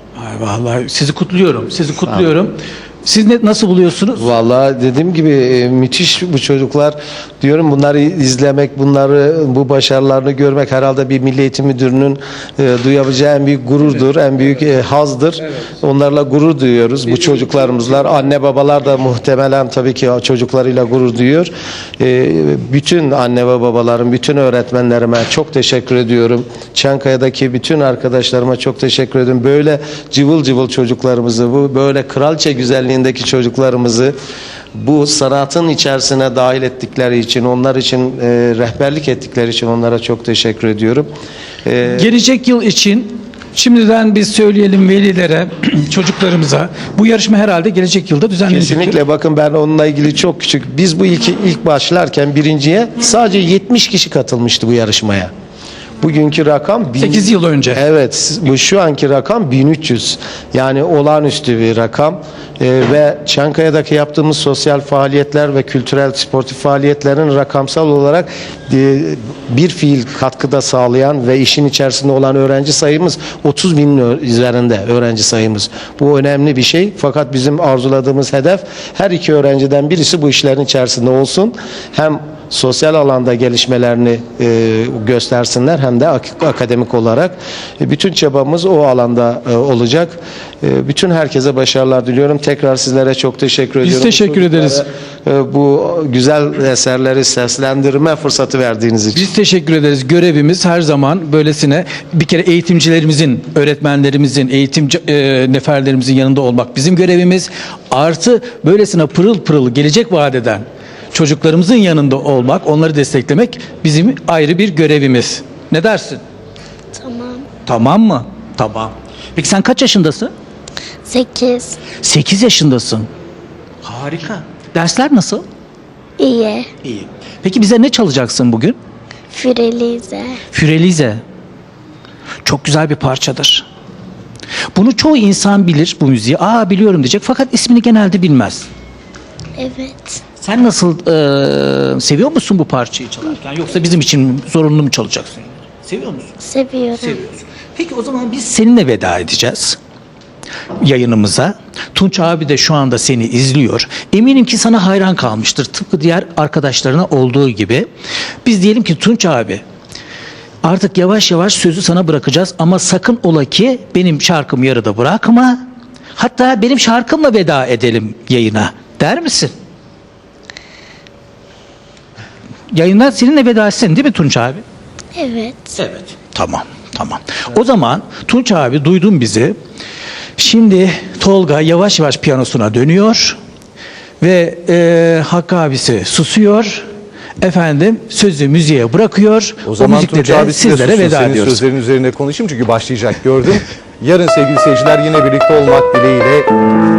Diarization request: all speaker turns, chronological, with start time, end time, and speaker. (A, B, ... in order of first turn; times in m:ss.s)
0:00.2-0:04.3 A
0:04.2-0:34.2 B
0:34.8-0:41.1 B
0:41.6-0:42.1 B
0:41.9-0:49.0 A
0:48.5-0:55.3 B
0:56.0-1:39.2 B
0:57.0-0:57.8 A
1:33.8-1:34.8 A
1:39.1-1:56.2 A
1:57.0-1:57.5 C
1:57.6-2:00.3 A
2:01.1-2:01.8 C
2:02.0-2:03.1 A
2:03.8-2:05.4 A
2:06.2-2:06.7 C
2:06.8-2:08.8 A
2:09.3-2:10.4 C
2:10.5-2:11.2 A
2:12.4-2:13.7 A
2:14.7-2:18.7 A
2:19.6-2:20.2 C
2:20.4-2:26.3 A
2:26.4-2:27.2 C
2:27.0-2:29.8 A
2:30.8-2:37.9 A
2:38.4-2:39.6 A
2:40.6-2:45.6 A
2:46.2-2:49.5 A
2:52.7-2:54.6 A
2:55.2-2:55.8 C
2:55.8-2:59.6 A
3:00.4-3:03.4 A
3:04.2-3:06.9 A
3:07.4-3:11.6 A
3:09.6-3:16.5 D